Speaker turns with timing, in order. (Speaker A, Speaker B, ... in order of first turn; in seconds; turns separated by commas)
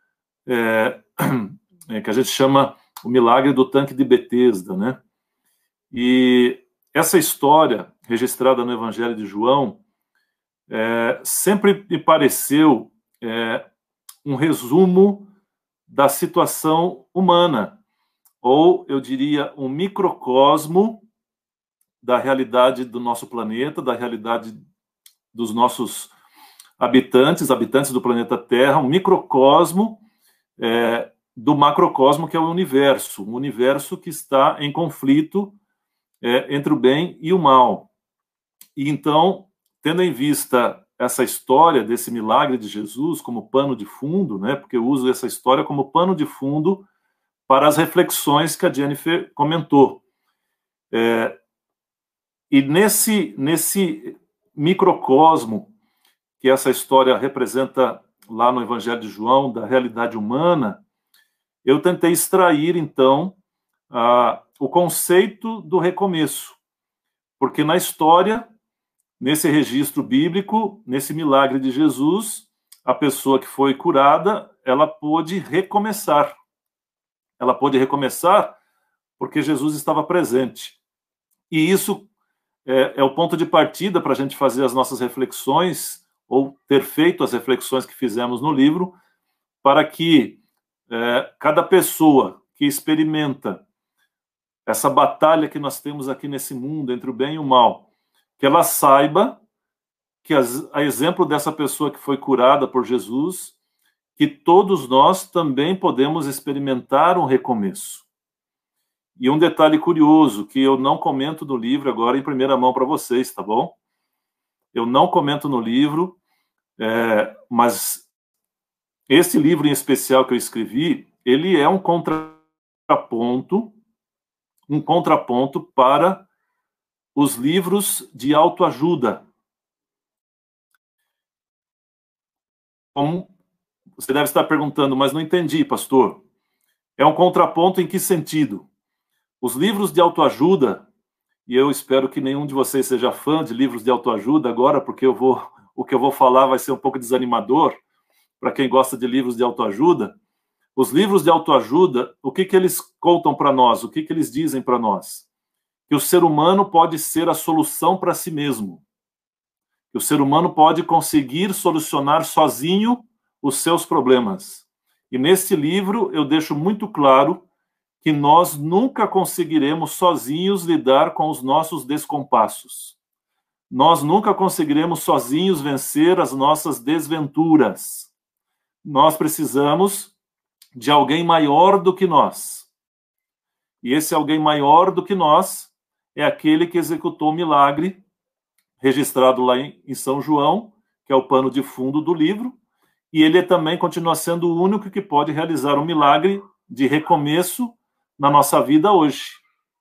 Speaker A: 0.5-5.0, Speaker A: 5.9-9.8, Speaker A: 10.7-13.6, Speaker A: 14.2-15.3, Speaker A: 15.9-17.8, Speaker A: 18.4-21.1, Speaker A: 22.0-24.6, Speaker A: 25.3-26.1, Speaker A: 26.8-30.0, Speaker A: 30.6-35.6, Speaker A: 36.2-37.9, Speaker A: 38.8-46.9, Speaker A: 47.5-50.0, Speaker A: 50.9-51.4, Speaker A: 52.5-55.7, Speaker A: 56.4-60.8, Speaker A: 61.6-63.4, Speaker A: 63.9-66.6, Speaker A: 67.4-68.5, Speaker A: 69.2-76.3, Speaker A: 77.4-78.6, Speaker A: 79.2-80.8, Speaker A: 81.5-82.1, Speaker A: 82.7-89.0, Speaker A: 89.6-90.4, Speaker A: 90.9-93.6, Speaker A: 94.7-97.9, Speaker A: 98.4-99.4, Speaker A: 100.2-103.5, Speaker A: 104.2-108.1, Speaker A: 109.2-113.8, Speaker A: 114.7-116.2, Speaker A: 116.8-118.0, Speaker A: 119.1-123.8, Speaker A: 124.7-126.3, Speaker A: 127.2-129.2, Speaker A: 132.9-133.3, Speaker A: 134.0-136.2, Speaker A: 137.0-138.7, Speaker A: 139.4-140.8, Speaker A: 141.5-147.8, Speaker A: 148.4-150.2, Speaker A: 150.8-155.3, Speaker A: 155.9-158.8, Speaker A: 159.9-167.4, Speaker A: 168.0-173.0, Speaker A: 173.7-178.1, Speaker A: 178.8-180.1, Speaker A: 180.8-182.7, Speaker A: 183.8-188.0, Speaker A: 188.8-192.6, Speaker A: 193.1-199.4